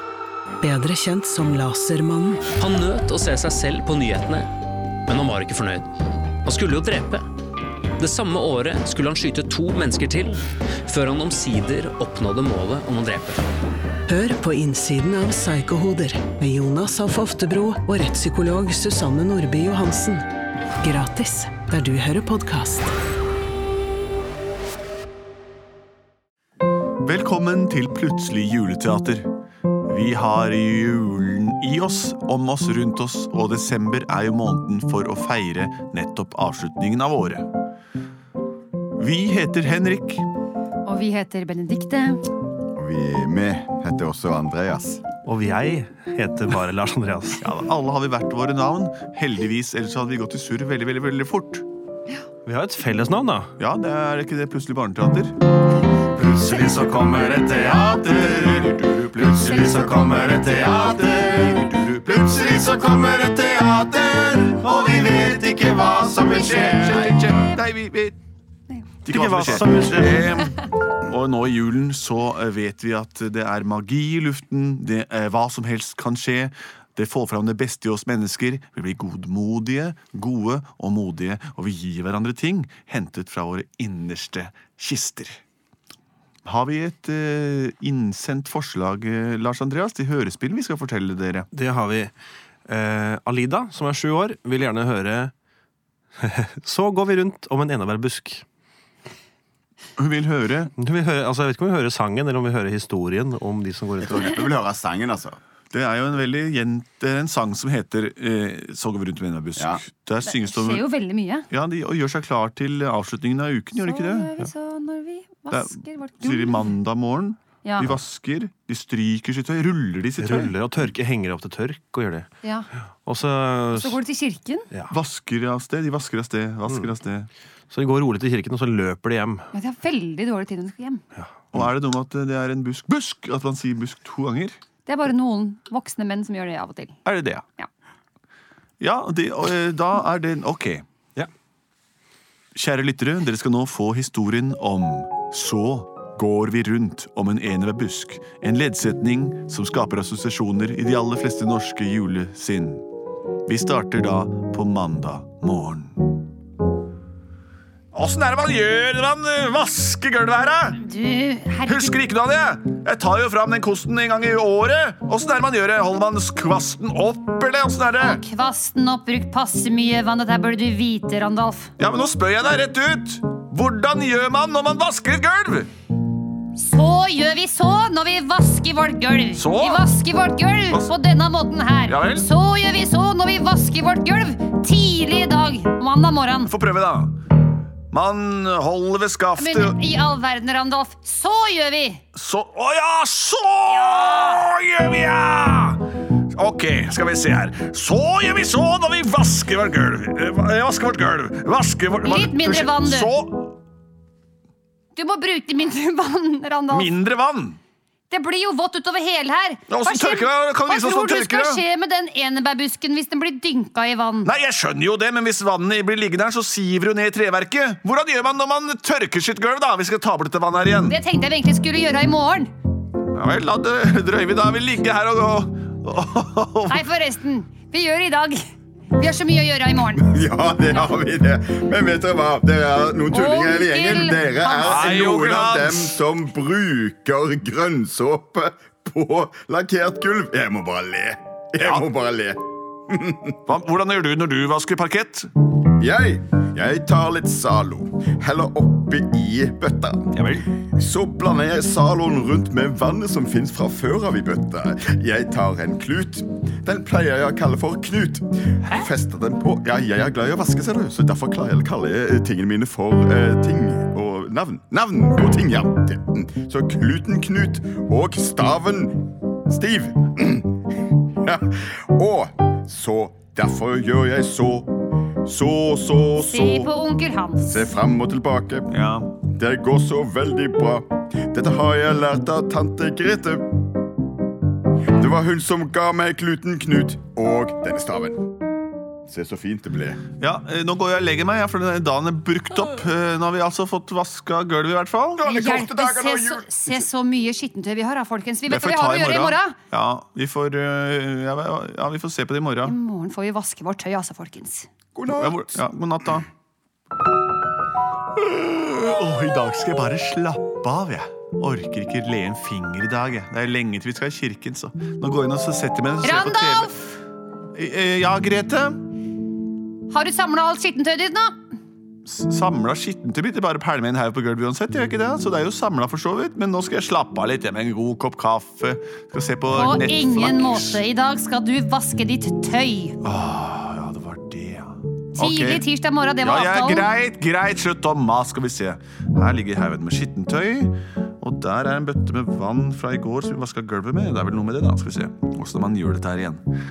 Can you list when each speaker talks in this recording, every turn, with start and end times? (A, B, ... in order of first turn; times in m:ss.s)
0:00.6-0:02.5 A
0:02.6-0:04.5 B
0:05.1-0:05.9 B
0:06.4-0:07.2 B
0:08.0-0:13.4 B
0:14.1-0:20.3 A
0:20.8-0:23.0 A
0:27.0-0:29.3 C
0:29.9-0:37.5 C
0:39.0-0:40.2 C
0:40.8-0:42.2 D
0:42.8-0:45.0 E
0:45.2-0:47.4 F
0:47.4-0:51.7 C
0:52.4-0:53.5 F
0:53.6-0:55.4 C
0:56.1-1:08.2 C
0:59.9-1:00.6 D
1:09.0-1:25.4 C
1:09.1-1:10.3 F
1:26.4-1:31.5 C
1:31.5-1:32.1 F
1:32.7-1:35.3 F
1:36.2-1:38.4 F
1:40.0-1:40.7 C
1:40.8-1:44.4 F
1:44.0-1:45.4 E
1:45.7-1:50.9 C
1:49.6-1:49.8 E
1:50.2-1:51.5 D
1:51.5-1:54.3 C
1:53.8-1:56.7 D
1:55.5-2:00.5 C
1:57.6-1:57.9 D
2:00.2-2:02.3 F
2:03.0-2:04.0 F
2:03.7-2:04.7 D
2:04.9-2:07.3 C
2:07.7-2:09.5 F
2:09.5-2:11.0 D
2:11.5-2:14.6 C
2:14.9-2:17.0 D
2:17.0-2:17.4 C
2:18.8-2:20.8 C
2:22.5-2:32.8 C
2:33.5-2:36.2 C
2:37.9-2:40.8 C
2:40.8-2:42.0 D
2:41.7-2:48.2 C
2:48.0-2:51.7 D
2:51.8-2:55.7 C
2:56.6-3:06.5 D
2:59.4-3:00.0 C
3:01.9-3:02.3 C
3:06.4-3:07.2 C
3:07.9-3:09.8 C
3:09.4-3:12.0 D
3:12.1-3:23.6 C
3:22.0-3:23.1 D
3:25.0-3:26.9 D
3:26.7-3:27.6 C
3:28.1-3:34.3 D
3:29.7-3:31.6 C
3:34.2-3:41.0 C
3:40.9-3:42.5 D
3:43.1-3:46.8 C
3:46.7-3:50.1 D
3:50.0-4:03.4 E
3:53.1-3:54.9 D
3:54.6-3:56.0 C
4:01.6-4:01.9 C
4:03.5-4:05.3 C
4:05.8-4:10.1 E
4:10.8-4:30.6 E
4:31.2-4:34.7 E
4:35.2-4:36.7 E
4:36.2-4:37.7 D
4:37.4-4:38.7 E
4:38.7-4:39.1 C
4:39.3-4:43.5 E
4:45.0-4:48.4 E
4:49.1-4:50.0 E
4:50.2-4:55.3 C
4:55.2-4:56.8 E
4:55.2-4:59.6 D
4:58.5-5:02.8 C
5:02.6-5:04.7 D
5:05.0-5:05.6 E
5:05.2-5:06.3 C
5:08.2-5:16.8 C
5:16.0-5:16.8 D
5:17.5-5:18.8 C
5:19.9-5:21.4 D
5:22.0-5:30.8 C
5:29.5-5:33.0 D
5:33.0-5:35.7 C
5:35.2-5:36.9 D
5:36.2-5:46.4 C